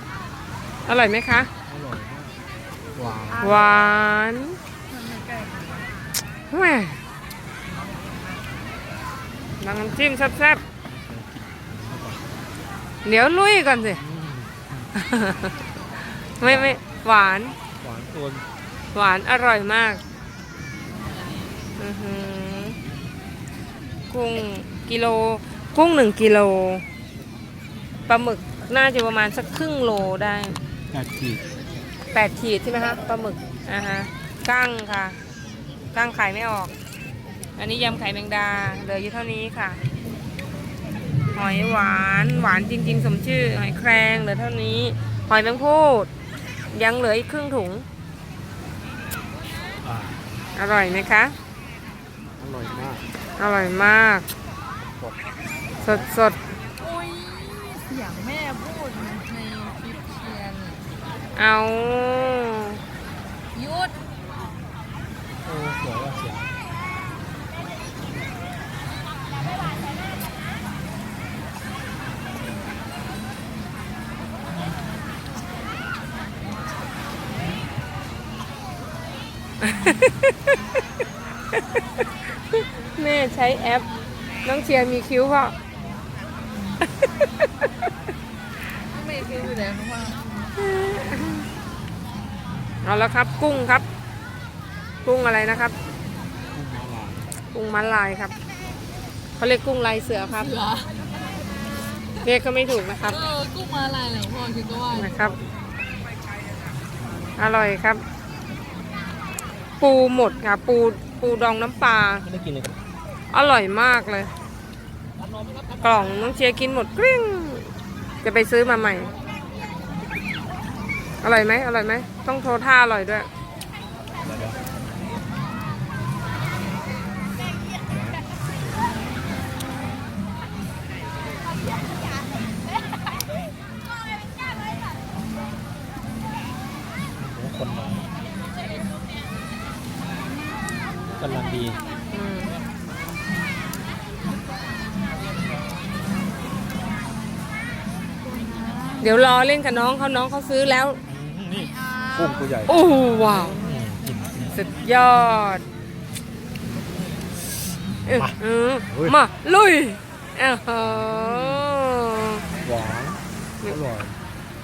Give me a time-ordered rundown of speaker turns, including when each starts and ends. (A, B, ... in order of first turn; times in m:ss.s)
0:00.8-0:01.5 A
0:01.7-0:02.3 B
0:03.0-0:03.6 B
0:03.4-0:03.8 C
0:03.4-0:04.6 A
0:04.9-0:05.9 C
0:06.5-0:07.0 A
0:09.6-0:10.6 A
0:10.9-0:12.3 B
0:13.0-0:14.0 A
0:14.0-0:14.8 B
0:15.0-0:15.5 A
0:16.3-0:17.6 A
0:16.4-0:16.8 B
0:17.8-0:18.5 B
0:18.9-0:20.0 A
0:21.8-0:22.8 A
0:24.1-0:26.8 A
0:28.1-0:30.6 A
0:30.9-0:31.4 B
0:32.1-0:35.2 A
0:35.9-0:36.7 A
0:37.6-0:39.8 A
0:41.3-0:46.1 A
0:46.7-0:47.8 A
0:49.8-0:50.2 B
0:50.6-0:51.4 A
0:52.4-0:53.1 B
0:53.4-0:54.3 A
0:55.8-0:56.4 A
0:56.8-1:00.9 C
1:01.3-1:02.8 A
1:03.5-1:04.0 C
1:05.4-1:06.5 B
1:19.7-1:20.1 A
1:22.5-1:23.9 A
1:24.4-1:25.6 A
1:28.8-1:30.5 C
1:30.6-1:31.4 A
1:32.8-1:33.9 A
1:35.0-1:35.8 A
1:36.5-1:37.3 B
1:37.5-1:38.4 A
1:39.4-1:40.6 A
1:40.4-1:40.9 C
1:42.2-1:43.2 A
1:43.1-1:45.3 C
1:44.9-1:45.4 A
1:47.4-1:48.0 A
1:49.8-1:52.3 A
1:52.3-1:52.8 B
1:53.3-1:54.3 A
1:55.8-1:57.7 A
1:58.2-1:59.1 A
2:01.2-2:03.3 A
2:04.3-2:04.6 B
2:07.9-2:08.2 B
2:17.2-2:18.1 B
2:21.2-2:21.8 B
2:22.1-2:22.6 A
2:28.2-2:29.1 C
2:29.0-2:31.0 A
2:31.1-2:32.8 B
2:32.7-2:33.6 A
2:33.5-2:34.6 B
2:34.5-2:35.6 A
2:38.0-2:38.4 B
2:38.0-2:42.4 A
2:38.9-2:39.2 B
2:42.6-2:44.2 B